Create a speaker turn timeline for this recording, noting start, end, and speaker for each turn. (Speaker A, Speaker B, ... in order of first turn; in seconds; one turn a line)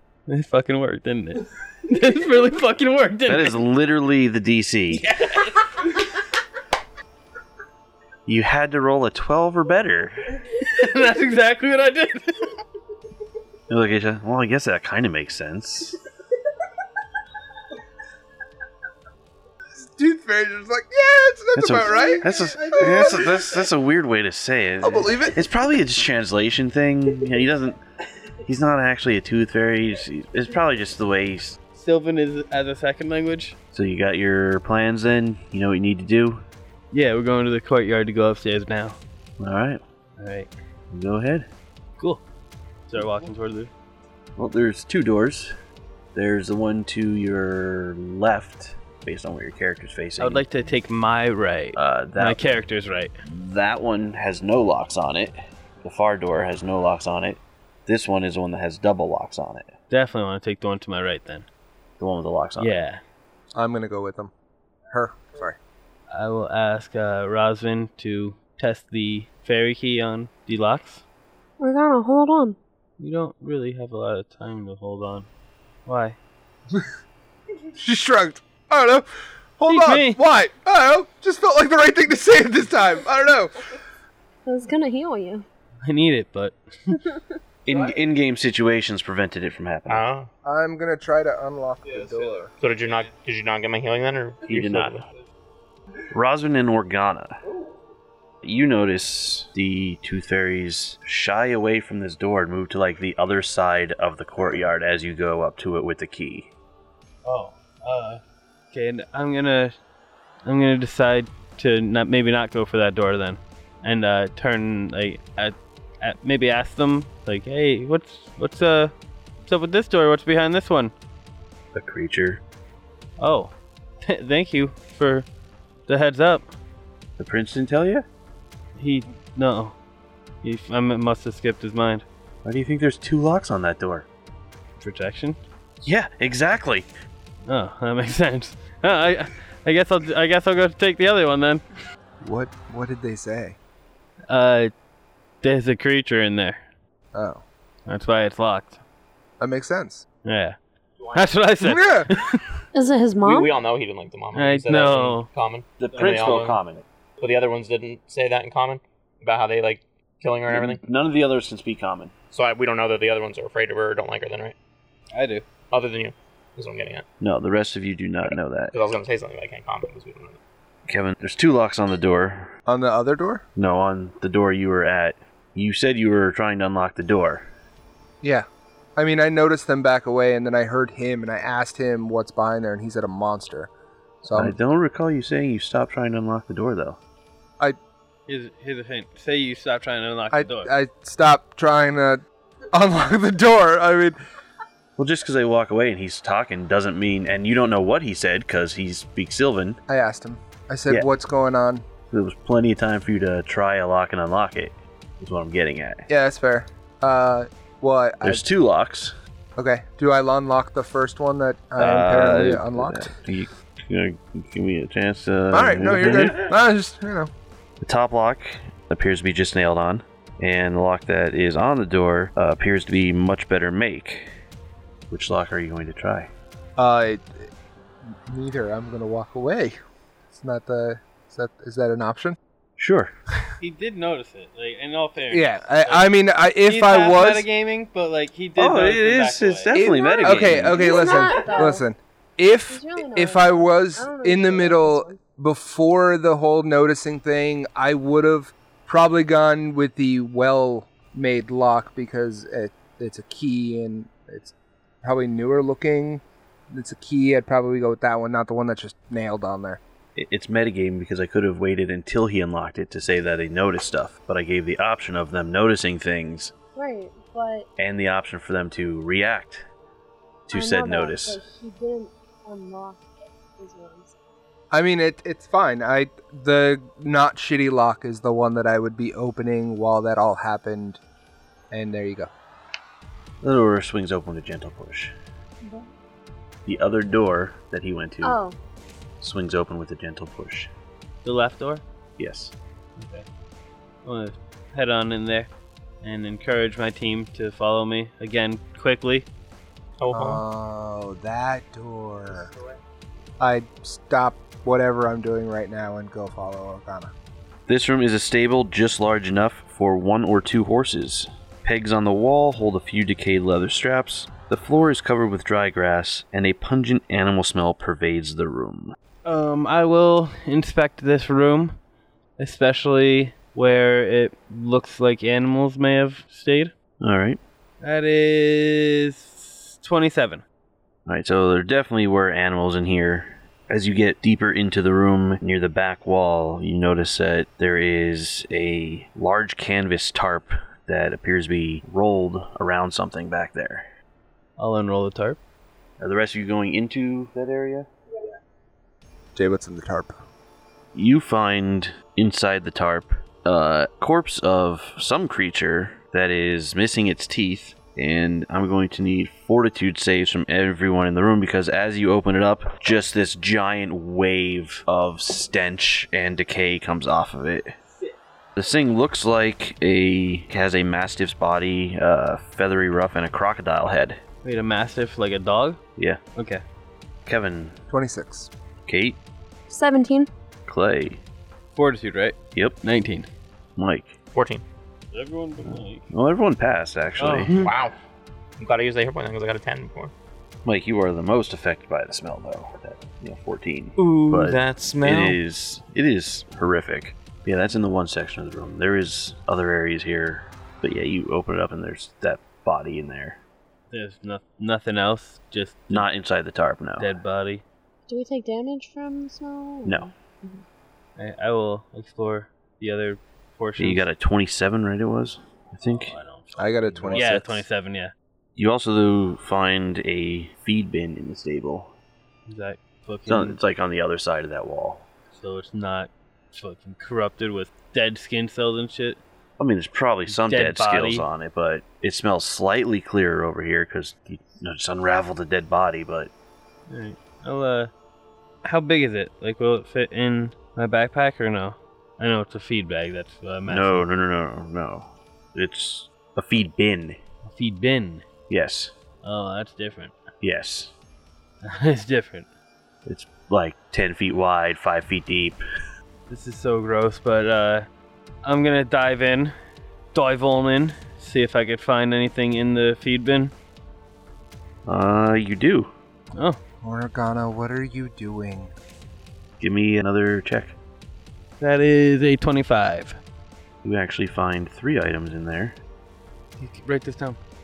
Speaker A: 0.3-3.6
Speaker B: 3.3-5.1
Speaker A: 4.9-5.9
Speaker B: 8.2-10.2
Speaker A: 10.6-12.5
Speaker B: 13.7-15.9
Speaker C: 19.7-23.4
Speaker B: 21.6-27.8
Speaker C: 24.8-25.4
Speaker B: 28.4-31.6
Speaker A: 31.7-33.6
Speaker B: 33.7-36.4
Speaker A: 36.9-39.0
Speaker B: 39.4-39.8
Speaker A: 40.2-40.5
Speaker B: 40.9-41.5
Speaker A: 42.9-43.7
Speaker B: 44.4-45.5
Speaker B: 46.1-50.4
Speaker A: 50.2-53.1
Speaker B: 51.8-52.4
Speaker B: 53.2-59.7
Speaker A: 59.9-61.5
Speaker B: 62.0-62.7
Speaker A: 62.6-63.0
Speaker C: 63.5-64.3
Speaker C: 64.9-65.6
Speaker A: 66.1-71.0
Speaker D: 71.6-72.6
Speaker A: 73.0-75.3
Speaker A: 75.8-76.2
Speaker C: 77.8-83.7
Speaker A: 79.7-80.2
Speaker D: 84.5-85.4
Speaker A: 85.8-87.0
Speaker B: 87.7-90.0
Speaker E: 89.9-90.3
Speaker C: 90.4-92.5
Speaker E: 92.6-95.0
Speaker B: 94.5-95.0
Speaker B: 96.1-97.3
Speaker B: 98.4-106.5
Speaker A: 107.2-109.8
Speaker A: 110.4-118.9
Speaker A: 119.5-120.9
Speaker B: 121.7-122.4
Speaker A: 123.2-125.3
Speaker A: 125.9-126.5
Speaker B: 127.2-128.0
Speaker A: 128.8-129.7
Speaker A: 130.4-132.0
Speaker B: 132.4-134.1
Speaker A: 134.8-135.4
Speaker B: 135.8-136.9
Speaker A: 137.4-141.6
Speaker C: 142.2-143.6
Speaker A: 144.3-144.7
Speaker A: 145.4-146.6
Speaker C: 147.1-147.4
Speaker A: 147.9-148.8
Speaker C: 149.4-150.0
Speaker A: 150.2-150.6
Speaker A: 151.1-152.6
Speaker C: 151.6-152.1
Speaker D: 152.7-153.6
Speaker E: 153.2-156.6
Speaker A: 154.3-155.3
Speaker B: 155.8-156.8
Speaker E: 157.2-160.8
Speaker B: 160.5-162.1
Speaker E: 162.3-164.5
Speaker A: 165.1-165.4
Speaker E: 165.7-167.0
Speaker B: 167.2-168.7
Speaker E: 168.2-170.4
Speaker B: 170.9-172.5
Speaker C: 172.7-173.4
Speaker B: 173.6-177.5
Speaker C: 178.2-183.7
Speaker C: 184.2-184.6
Speaker B: 184.3-187.0
Speaker A: 188.3-190.7
Speaker C: 190.3-192.2
Speaker C: 192.7-194.2
Speaker B: 195.0-199.8
Speaker C: 199.9-201.8
Speaker B: 202.1-206.0
Speaker C: 206.1-208.4
Speaker B: 208.2-209.1
Speaker C: 209.6-213.1
Speaker B: 211.8-216.4
Speaker C: 215.5-217.3
Speaker B: 217.8-224.3
Speaker B: 225.1-226.3
Speaker C: 226.8-227.5
Speaker C: 228.1-229.8
Speaker C: 230.3-232.4
Speaker B: 232.8-233.1
Speaker A: 233.6-236.1
Speaker C: 235.3-237.4
Speaker A: 236.6-239.7
Speaker B: 238.6-240.9
Speaker C: 239.7-259.8
Speaker D: 239.8-241.8
Speaker D: 242.7-245.2
Speaker B: 260.1-266.5
Speaker D: 266.7-267.7
Speaker B: 267.8-269.6
Speaker B: 270.5-271.4
Speaker D: 270.5-274.1
Speaker C: 274.7-281.0
Speaker C: 281.7-282.3
Speaker B: 283.4-285.1
Speaker D: 285.6-285.9
Speaker B: 286.6-288.4
Speaker D: 288.2-288.6
Speaker B: 289.2-290.7
Speaker A: 291.2-291.8
Speaker B: 292.2-292.5
Speaker A: 293.0-293.2
Speaker A: 294.0-295.5
Speaker A: 296.0-299.3
Speaker E: 300.0-300.4
Speaker C: 300.1-302.5
Speaker C: 303.4-307.1
Speaker B: 307.7-318.9
Speaker A: 319.2-321.8
Speaker A: 322.4-326.7
Speaker B: 327.0-327.4
Speaker A: 327.8-330.4
Speaker B: 331.1-343.8
Speaker A: 344.6-345.4
Speaker B: 346.0-347.9
Speaker C: 349.3-350.1
Speaker B: 350.9-367.7
Speaker B: 368.6-374.2
Speaker A: 374.4-375.8
Speaker A: 376.3-376.6
Speaker B: 377.2-377.8
Speaker C: 377.9-378.5
Speaker B: 378.8-379.2
Speaker D: 379.7-380.3
Speaker B: 380.6-381.2
Speaker A: 381.7-383.3
Speaker B: 382.5-382.8
Speaker B: 383.8-384.1
Speaker E: 384.3-384.6
Speaker A: 385.1-386.1
Speaker B: 385.6-387.5
Speaker A: 387.2-387.7
Speaker E: 387.6-387.9
Speaker E: 388.6-390.1
Speaker B: 390.6-403.4
Speaker E: 394.0-395.4
Speaker A: 403.9-406.1
Speaker B: 405.9-407.2
Speaker A: 407.0-407.6
Speaker D: 408.1-410.6
Speaker B: 409.8-410.1
Speaker A: 411.2-414.1
Speaker B: 413.8-416.1
Speaker A: 415.9-418.1
Speaker C: 416.6-417.6
Speaker B: 418.6-421.9
Speaker A: 422.5-423.6
Speaker B: 423.3-425.1
Speaker A: 425.3-429.2
Speaker B: 429.6-436.3
Speaker A: 430.3-431.3
Speaker A: 436.9-437.9
Speaker A: 438.6-444.0
Speaker B: 443.7-447.2
Speaker A: 447.4-448.2
Speaker B: 448.5-448.9
Speaker A: 449.2-450.2
Speaker B: 450.4-450.9
Speaker A: 451.6-452.5
Speaker B: 453.0-455.6
Speaker A: 456.3-457.9
Speaker A: 458.4-459.5
Speaker A: 460.1-463.5
Speaker B: 464.9-465.9
Speaker C: 466.8-468.7
Speaker B: 469.6-470.7
Speaker A: 471.6-473.2
Speaker B: 473.8-475.8
Speaker A: 476.6-477.4